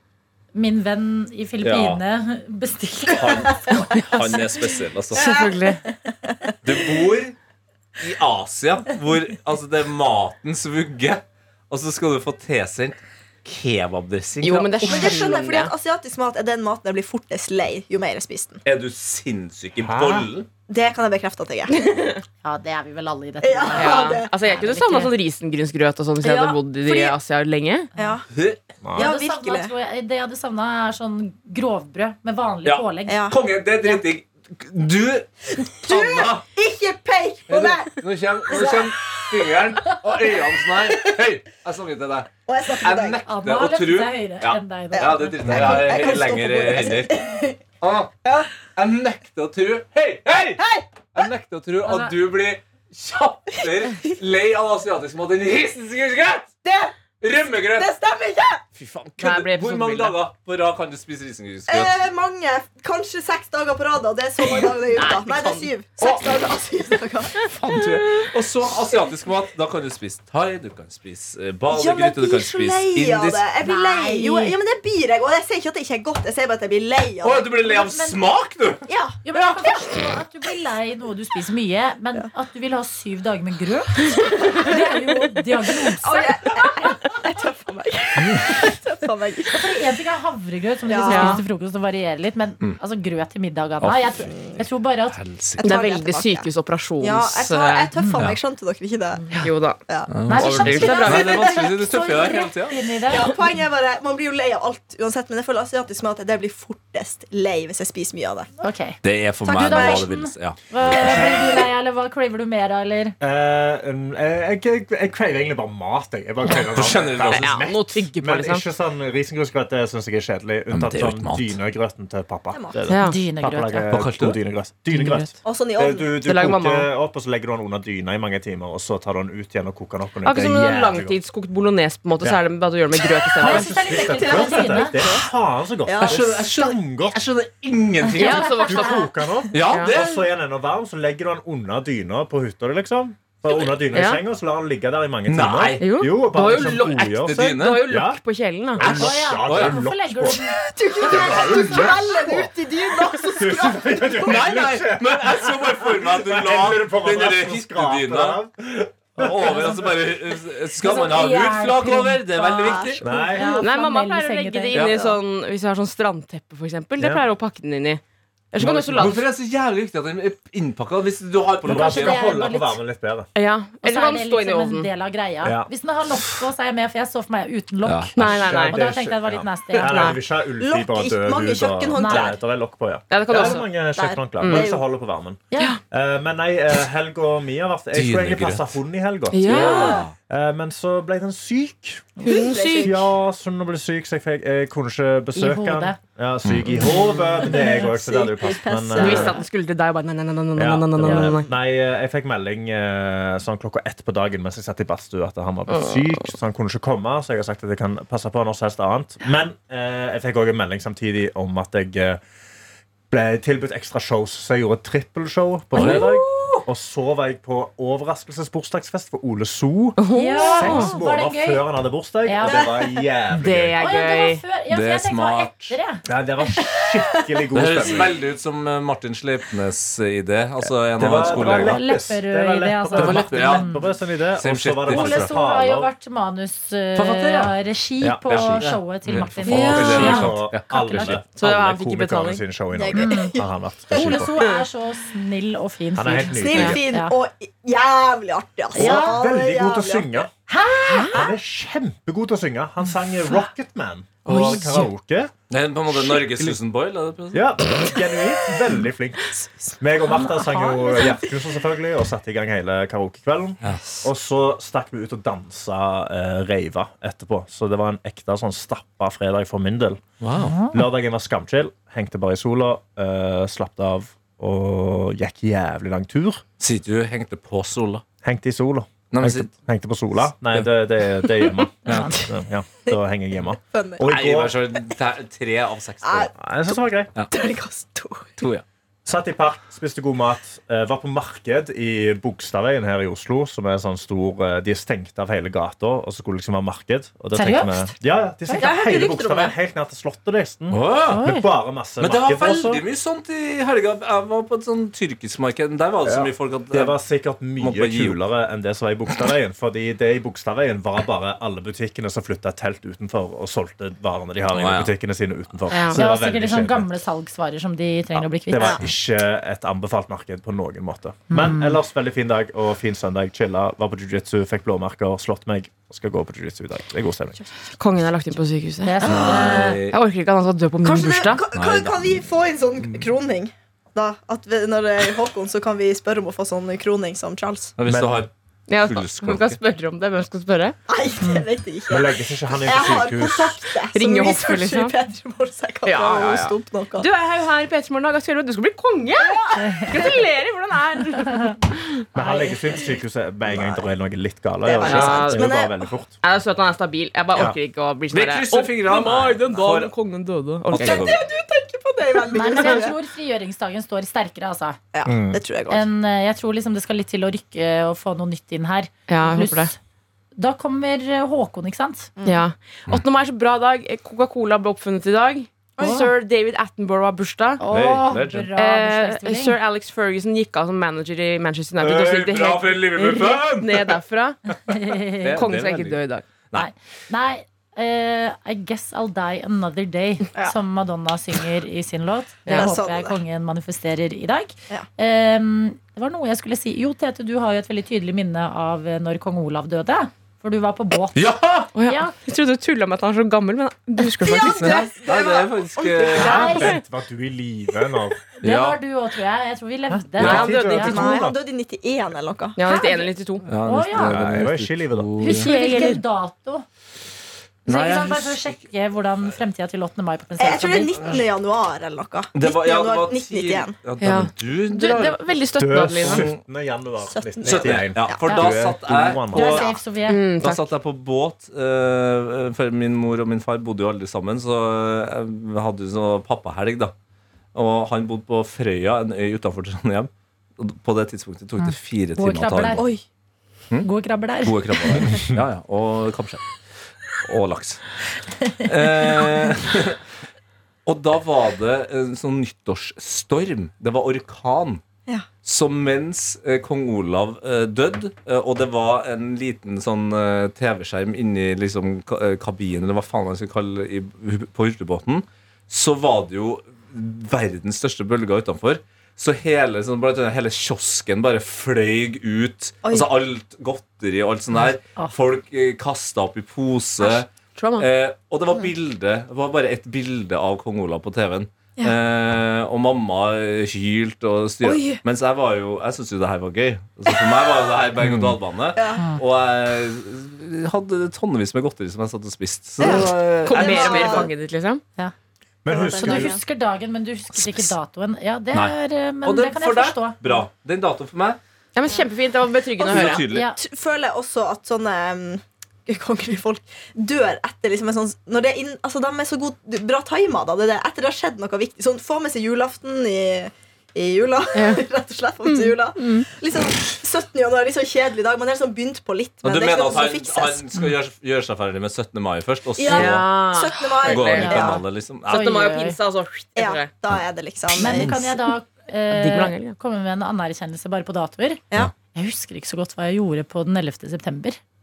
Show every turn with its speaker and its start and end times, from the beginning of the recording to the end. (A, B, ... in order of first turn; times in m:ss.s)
0:00.5-0:04.5 A
0:01.6-0:02.0 B
0:03.1-0:05.4 B
0:05.1-0:06.9 C
0:05.2-0:05.8 D
0:06.6-0:07.4 B
0:08.0-0:15.1 B
0:14.4-0:15.7 D
0:14.8-0:18.6 C
0:18.6-0:20.5 B
0:19.8-0:20.3 E
0:20.7-0:22.2 C
0:22.4-0:25.1 A
0:23.4-0:24.3 C
0:23.7-0:27.9 D
0:26.2-0:27.2 A
0:28.0-0:28.3 C
0:28.3-0:28.6 B
0:28.8-0:29.1 E
0:28.9-0:29.7 C
0:29.0-0:33.3 A
0:32.6-0:36.4 B
0:33.1-0:33.4 C
0:35.8-0:38.9 C
0:37.5-0:48.1 B
0:42.5-0:43.2 C
0:43.2-0:45.8 A
0:45.0-0:47.6 C
0:48.2-0:48.6 C
0:48.7-0:56.6 B
0:50.6-0:51.2 C
0:51.8-0:52.2 A
0:53.6-0:54.1 C
0:56.6-0:57.0 C
0:57.2-0:57.9 B
0:57.6-0:58.6 C
0:58.8-1:01.9 B
0:59.2-1:00.2 D
1:01.7-1:07.8 C
1:04.4-1:05.7 D
1:06.0-1:06.2 B
1:07.4-1:13.4 B
1:11.7-1:17.5 C
1:13.6-1:14.6 A
1:17.2-1:18.9 B
1:17.6-1:18.2 A
1:18.9-1:20.0 C
1:19.2-1:26.6 A
1:24.3-1:24.8 C
1:25.8-1:29.7 C
1:29.5-1:35.2 A
1:30.8-1:31.4 C
1:31.0-1:31.4 D
1:33.8-1:34.3 B
1:35.1-1:35.6 B
1:35.6-1:36.5 C
1:35.6-1:37.9 D
1:37.0-1:39.2 C
1:38.0-1:38.2 A
1:39.2-1:41.6 D
1:39.9-1:42.4 C
1:40.1-1:42.8 B
1:40.3-1:43.3 A
1:43.0-1:48.5 C
1:48.6-1:53.2 A
1:49.0-1:51.4 B
1:49.4-1:50.1 C
1:53.2-2:11.2 E
1:56.5-1:57.6 B
1:57.2-1:58.6 D
2:00.7-2:01.6 B
2:02.5-2:02.8 C
2:02.9-2:03.2 D
2:02.9-2:03.9 A
2:03.9-2:04.4 B
2:05.0-2:05.3 A
2:05.4-2:06.2 C
2:06.2-2:06.9 D
2:10.2-2:13.8 D
2:13.4-2:17.2 E
2:13.4-2:15.0 A
2:13.9-2:15.2 C
2:15.9-2:16.4 C
2:16.0-2:18.8 B
2:18.1-2:19.1 A
2:18.2-2:19.0 D
2:18.6-2:28.2 E
2:19.5-2:20.2 B
2:19.7-2:19.9 D
2:23.9-2:24.2 D
2:25.3-2:27.9 B
2:25.8-2:28.9 D
2:28.8-2:30.4 E
2:28.8-2:29.8 B
2:28.8-2:32.1 A
2:30.4-2:34.5 C
2:31.0-2:32.5 E
2:33.4-2:39.9 E
2:34.2-2:38.4 B
2:39.2-2:43.0 B
2:40.8-2:44.8 A
2:42.6-2:43.0 C
2:43.0-2:43.6 E
2:43.6-2:48.0 D
2:44.7-2:45.0 B
2:44.8-2:45.2 C
2:47.0-2:47.2 E
2:48.5-2:49.2 D
2:48.6-2:52.2 B
2:51.6-2:53.3 E
2:51.6-2:52.8 A
2:53.4-2:54.9 D
2:53.8-3:00.2 A
2:55.4-2:55.7 E
2:57.8-2:58.1 B
2:58.2-2:58.8 D
2:58.3-3:12.2 E
2:59.7-3:00.2 D
3:00.6-3:02.4 C
3:02.0-3:02.3 A
3:03.1-3:03.7 D
3:03.4-3:04.8 C
3:04.4-3:04.7 D
3:05.5-3:05.8 A
3:07.9-3:08.8 B
3:09.3-3:10.0 D
3:09.4-3:10.2 B
3:09.5-3:10.1 A
3:12.2-3:12.5 A
3:12.2-3:13.0 D
3:12.3-3:13.1 C
3:12.8-3:19.4 E
3:15.4-3:16.0 A
3:16.4-3:16.9 B
3:16.7-3:17.9 A
3:16.9-3:19.4 C
3:19.0-3:21.5 D
3:19.0-3:19.4 A
3:20.6-3:32.2 E
3:33.1-3:43.8 E
3:35.8-3:36.1 B
3:35.8-3:36.6 A
3:40.0-3:40.9 D
3:40.1-3:41.7 A
3:42.2-3:42.7 A
3:42.4-3:43.0 C
3:43.3-3:44.4 D
3:43.8-3:46.0 A
3:44.7-3:45.8 B
3:46.0-3:48.2 E
3:47.5-3:51.8 B
3:51.0-3:55.9 E
3:51.1-3:53.9 A
3:53.0-3:53.8 B
3:54.4-3:55.3 B
3:54.9-4:01.1 A
3:57.0-3:57.6 B
3:58.0-3:58.7 E
3:58.3-4:01.2 B
3:59.4-4:00.3 D
3:59.4-4:04.5 E
4:01.2-4:02.4 D
4:02.8-4:04.2 C
4:02.9-4:03.4 A
4:03.9-4:07.2 A
4:06.0-4:06.8 E
4:06.4-4:10.3 C
4:08.7-4:09.2 A
4:08.8-4:10.3 E
4:10.5-4:11.2 A
4:10.9-4:11.2 D
4:11.0-4:11.2 C
4:11.1-4:15.3 E
4:14.3-4:14.9 D
4:15.5-4:17.6 B
4:16.0-4:16.6 E
4:17.3-4:30.0 E
4:20.1-4:21.0 A
4:30.2-4:30.6 B
4:30.4-4:30.8 A
4:30.6-4:36.4 E
4:36.6-4:38.0 B
4:38.2-4:44.6 E
4:39.1-4:39.5 B
4:41.8-4:42.1 B
4:41.9-4:42.2 A
4:43.7-4:44.1 C
4:44.0-4:46.3 B
4:46.0-4:48.4 C
4:46.4-4:47.1 E
4:48.4-4:48.6 B
4:49.1-5:02.8 E
4:57.3-4:57.9 A
4:58.6-4:59.6 C
5:00.7-5:01.3 B
5:01.1-5:01.5 A
5:02.0-5:07.0 B
5:06.0-5:16.9 E
5:07.6-5:08.2 B
5:14.5-5:14.9 B
5:15.7-5:16.0 D
5:15.9-5:18.8 A
5:18.2-5:27.4 E
5:18.6-5:18.8 C
5:21.3-5:21.8 A
5:27.8-5:31.4 D
5:28.8-5:29.8 A
5:29.0-5:29.8 C
5:29.0-5:30.0 B
5:30.8-5:37.8 C
5:31.5-5:32.2 B
5:37.8-5:39.6 B
5:37.9-5:38.2 E
5:38.7-5:40.8 D
5:40.9-5:47.1 C
5:41.9-5:43.6 E
5:43.9-5:44.9 D
5:45.8-5:51.8 D
5:49.2-5:50.2 C
5:49.7-5:49.9 A
5:52.1-5:56.2 E
5:54.6-5:56.0 C
5:54.8-5:55.6 D
5:56.2-6:01.1 D
5:58.1-5:59.9 B
6:00.7-6:01.2 B
6:00.8-6:03.0 C
6:02.3-6:04.8 A
6:04.9-6:05.9 C
6:05.0-6:05.4 E
6:05.7-6:09.8 A
6:09.1-6:09.7 D
6:10.4-6:12.1 A
6:12.2-6:12.4 C
6:12.2-6:17.6 D
6:15.8-6:16.0 C
6:15.8-6:16.1 A
6:17.6-6:19.6 A
6:17.7-6:18.6 B
6:18.6-6:24.4 D
6:21.8-6:24.0 B
6:24.7-6:25.5 A
6:25.2-6:26.7 B
6:25.3-6:26.3 D
6:26.6-6:42.2 A
6:32.5-6:32.7 D
6:32.5-6:33.2 C
6:41.1-6:41.7 B
6:41.8-6:44.9 D
6:44.2-6:46.7 C
6:44.6-6:46.6 B
6:46.1-6:48.2 E
6:46.1-6:46.8 A
6:48.4-6:51.0 A
6:48.4-6:48.8 B
6:50.1-6:51.4 E
6:50.2-6:50.5 B
6:50.2-6:51.2 D
6:50.8-6:52.9 C
6:52.6-6:53.4 D
6:52.7-6:54.3 A
6:53.4-6:55.5 B
6:54.0-6:55.2 E
6:55.2-6:56.6 A
6:55.2-6:56.0 D
6:57.7-6:58.6 B
6:57.7-7:01.2 A
7:00.4-7:03.7 C
7:02.3-7:05.2 B
7:04.0-7:06.3 D
7:05.6-7:09.7 E
7:05.9-7:06.4 B
7:07.1-7:08.3 C
7:07.4-7:09.7 B
7:09.3-7:10.3 A
7:10.1-7:10.7 D
7:10.4-7:16.9 B
7:17.5-7:22.9 B
7:21.6-7:22.8 A
7:22.8-7:23.0 C
7:23.8-7:25.1 A
7:24.4-7:26.4 B
7:27.2-7:27.8 B
7:28.6-7:30.0 B
7:30.9-7:34.8 B
7:35.4-8:14.3 B
7:52.8-7:53.1 C
7:57.1-7:57.9 D
8:04.6-8:05.0 C
8:07.1-8:07.7 C
8:08.0-8:08.4 E
8:08.8-8:09.1 C
8:09.0-8:09.2 A
8:12.8-8:14.3 C
8:13.4-8:14.8 D
8:15.6-8:16.4 E
8:15.7-8:16.4 C
8:16.0-8:20.4 A
8:18.5-8:21.4 B
8:21.8-8:23.3 D
8:22.8-8:23.5 B
8:22.8-8:40.7 C
8:23.1-8:23.6 A
8:34.5-8:34.8 D
8:35.4-8:36.3 D
8:39.4-8:43.4 B
8:42.8-8:44.8 C
8:42.8-8:44.8 D
8:44.0-8:45.5 B
8:44.4-8:46.0 A
8:45.3-8:46.9 D
8:46.6-8:48.4 C
8:47.8-8:51.6 A
8:47.8-8:48.2 B
8:49.1-8:49.8 D
8:52.1-8:54.6 A